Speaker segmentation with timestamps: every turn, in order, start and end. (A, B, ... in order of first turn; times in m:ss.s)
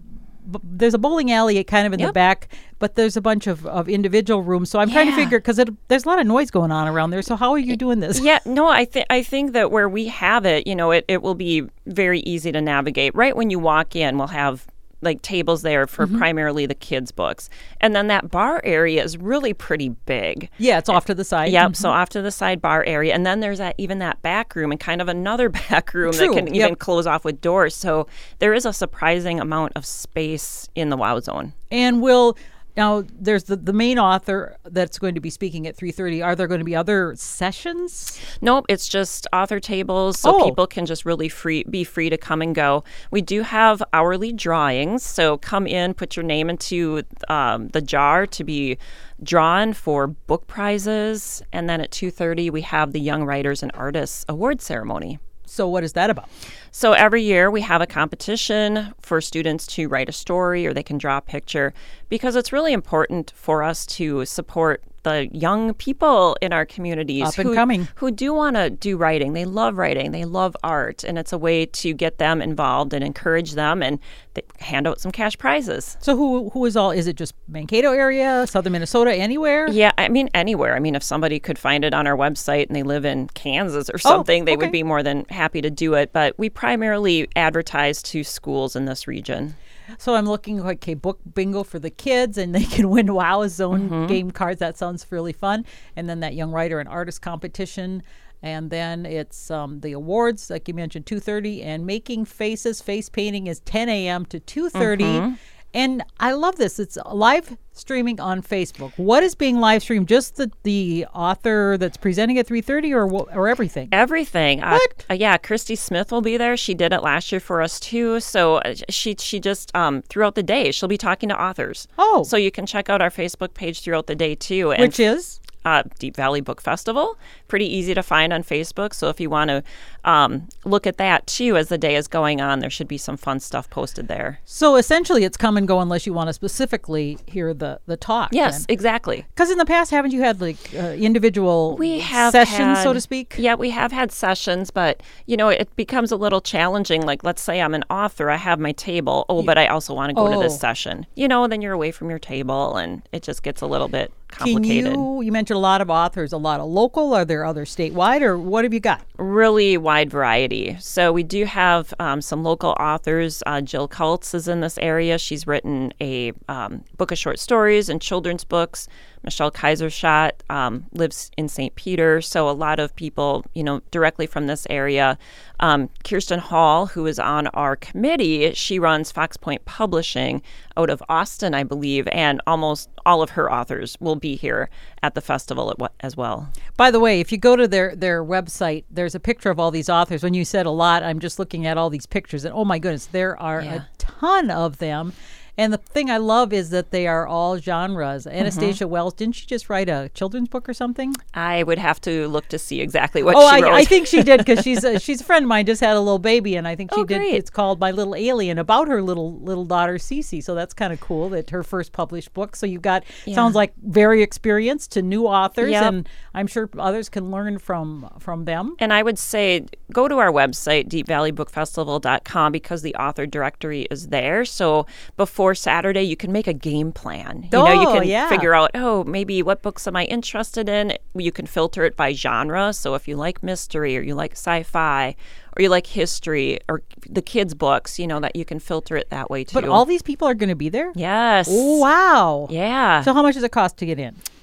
0:00.4-0:08.2 A
0:04.8-0:05.4 B
0:08.1-0:31.5 B
0:20.6-0:21.9 A
0:26.0-0:26.7 A
0:31.7-0:38.2 A
0:38.4-0:55.2 B
0:40.2-0:40.6 A
0:55.4-0:56.3 A
0:56.7-1:16.0 B
1:07.2-1:07.9 A
1:16.0-1:19.8 A
1:19.7-1:29.6 B
1:24.0-1:24.7 A
1:30.0-1:53.9 A
1:33.7-1:34.2 B
1:44.7-1:45.4 B
1:53.9-2:05.0 B
1:54.7-1:55.0 A
2:02.0-2:02.3 A
2:04.8-2:05.4 A
2:05.6-2:14.4 B
2:14.5-2:18.6 A
2:18.3-2:19.2 B
2:19.3-2:23.4 A
2:21.7-2:35.1 B
2:30.1-2:30.6 A
2:34.4-2:39.0 A
2:39.2-3:06.5 B
3:06.8-3:21.2 A
3:13.6-3:13.8 B
3:18.4-3:18.8 B
3:21.3-3:25.0 B
3:23.3-3:38.8 A
3:26.9-3:27.4 B
3:33.2-3:33.6 B
3:35.6-3:35.9 B
3:38.8-3:59.8 B
3:47.5-3:48.5 A
3:59.5-4:01.0 A
4:00.9-4:01.8 B
4:01.5-4:02.5 A
4:02.5-4:03.1 B
4:03.0-4:04.2 A